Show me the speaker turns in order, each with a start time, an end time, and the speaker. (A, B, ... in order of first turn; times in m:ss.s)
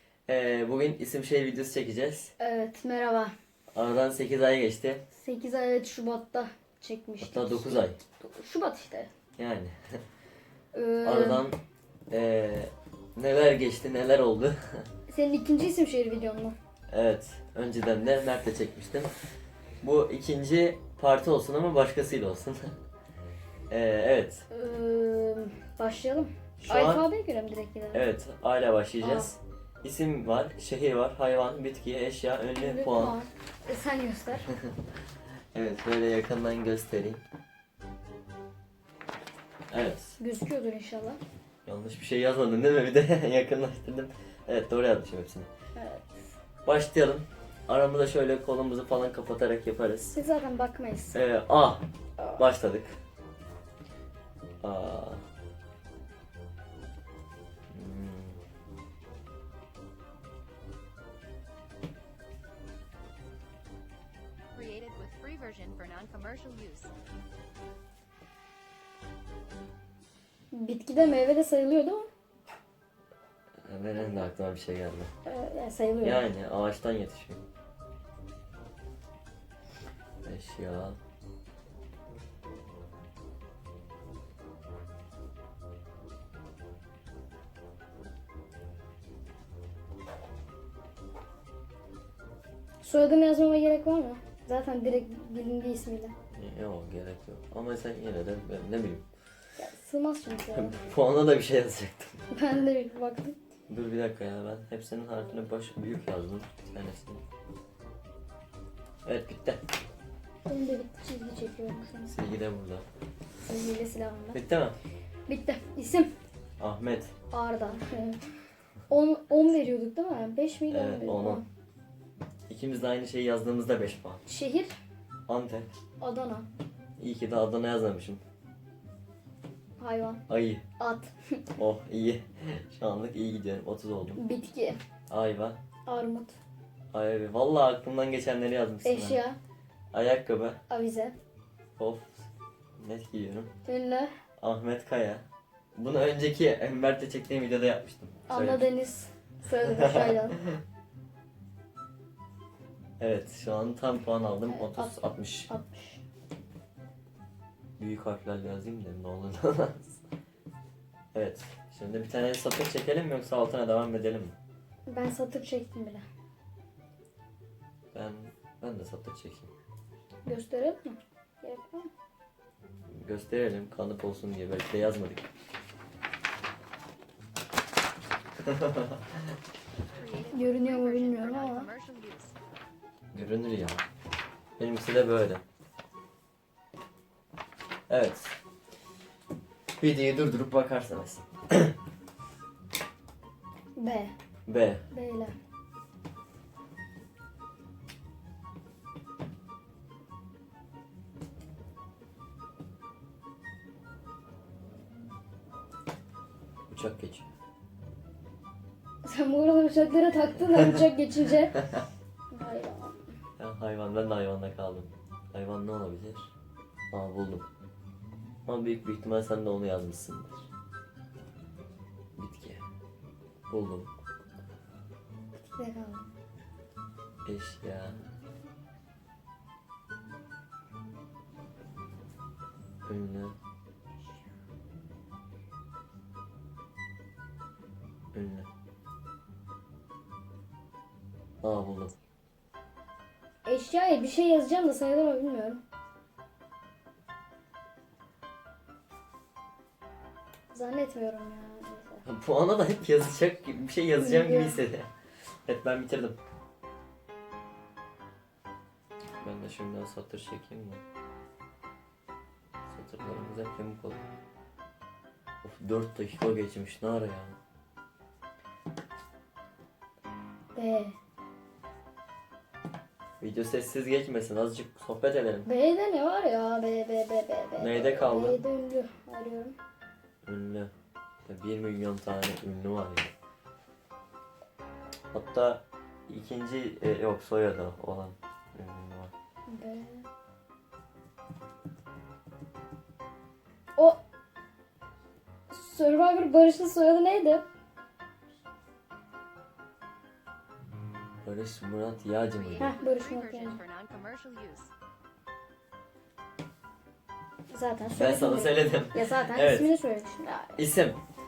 0:00.3-0:02.3 A
0:02.4-0:03.3 B
0:03.7-0:05.0 A
0:05.1-0:09.1 B
0:07.2-0:08.0 A
0:09.4-0:09.8 A
0:10.7-0:11.5 B
0:11.0-0:11.6 A
0:12.1-0:14.9 A
0:15.1-0:16.6 B
0:16.9-0:19.1 A
0:19.8-0:22.7 A
0:23.7-0:24.5 A
0:24.5-0:28.1 B
0:26.6-0:27.0 A
0:27.9-0:33.2 A
0:29.0-0:29.3 B
0:32.6-0:34.5 B
0:35.5-0:37.2 A
0:39.7-0:40.2 A
0:40.2-0:41.2 B
0:41.7-0:45.5 A
0:45.8-0:46.2 B
0:46.6-0:50.2 A
0:50.1-0:51.2 B
0:51.1-0:51.8 A
0:52.2-0:52.5 B
0:52.4-0:53.0 A
0:54.6-0:55.2 A
0:57.7-0:58.4 A
1:04.5-1:06.9 C
1:10.5-1:12.1 B
1:13.7-1:15.1 A
1:15.2-1:16.2 B
1:16.0-1:17.4 A
1:20.2-1:21.0 A
1:32.8-1:36.1 B
1:36.3-1:39.1 A
1:39.6-1:40.7 B
1:40.5-1:42.2 A
1:42.3-1:43.4 B
1:43.7-1:47.2 A
1:49.0-1:49.6 A
1:50.4-1:52.1 B
1:52.0-1:52.8 A
1:53.4-1:54.4 B
1:54.3-1:54.8 A
1:55.3-1:56.1 B
1:56.6-1:57.1 A
1:57.3-1:58.2 B
1:58.9-2:01.4 B
2:00.7-2:01.4 A
2:02.5-2:04.2 A
2:04.2-2:04.7 B
2:05.3-2:05.7 A
2:06.0-2:06.5 B
2:07.0-2:08.2 A
2:09.8-2:10.2 B
2:10.3-2:10.6 A
2:10.8-2:11.4 B
2:11.6-2:14.2 A
2:14.2-2:14.8 B
2:15.1-2:15.6 A
2:15.9-2:16.4 B
2:16.9-2:19.2 A
2:18.8-2:19.4 B
2:19.9-2:20.6 A
2:20.7-2:21.2 B
2:21.8-2:23.5 A
2:23.7-2:24.1 B
2:24.4-2:28.7 A
2:28.3-2:30.4 B
2:29.7-2:30.6 A
2:33.0-2:35.5 A
2:34.4-2:36.0 B
2:37.8-2:40.0 A
2:41.1-2:44.3 A
2:44.9-2:46.0 B
2:47.9-2:49.5 A
2:50.2-2:51.9 B
2:53.0-2:55.3 A
2:58.4-2:59.0 A
2:59.9-3:02.3 C
3:00.3-3:01.7 B
3:03.1-3:03.8 A
3:04.6-3:05.4 A
3:07.9-3:08.4 A
3:09.8-3:11.7 A
3:13.8-3:14.1 B
3:14.5-3:14.8 A
3:14.9-3:15.3 B
3:26.7-3:27.2 A
3:29.0-3:31.6 B
3:32.3-3:33.1 B
3:33.4-3:36.3 A
3:36.9-3:37.5 A
3:38.5-3:40.5 A
3:42.2-3:42.6 A
3:43.5-3:44.0 A
3:45.4-3:46.1 B
3:47.2-3:48.0 A
3:52.9-3:53.4 A
3:58.1-3:58.5 A
4:01.4-4:01.9 A
4:03.5-4:05.6 B
4:10.5-4:12.0 B
4:12.0-4:14.9 A
4:14.0-4:14.6 B
4:15.4-4:16.2 A
4:19.2-4:20.8 A
4:22.7-4:24.0 A
4:25.4-4:27.4 A
4:30.6-4:30.9 B
4:33.2-4:35.5 A
4:35.4-4:39.6 B
4:37.6-4:38.4 A
4:40.2-4:40.7 A
4:41.2-4:43.1 A
4:45.1-4:49.1 A
4:49.5-4:50.1 B
4:53.8-4:54.0 B
4:55.5-4:57.4 B
5:01.2-5:02.7 A
5:02.3-5:04.7 C
5:02.6-5:03.6 B
5:07.5-5:10.6 B
5:07.9-5:09.7 A
5:10.6-5:11.0 A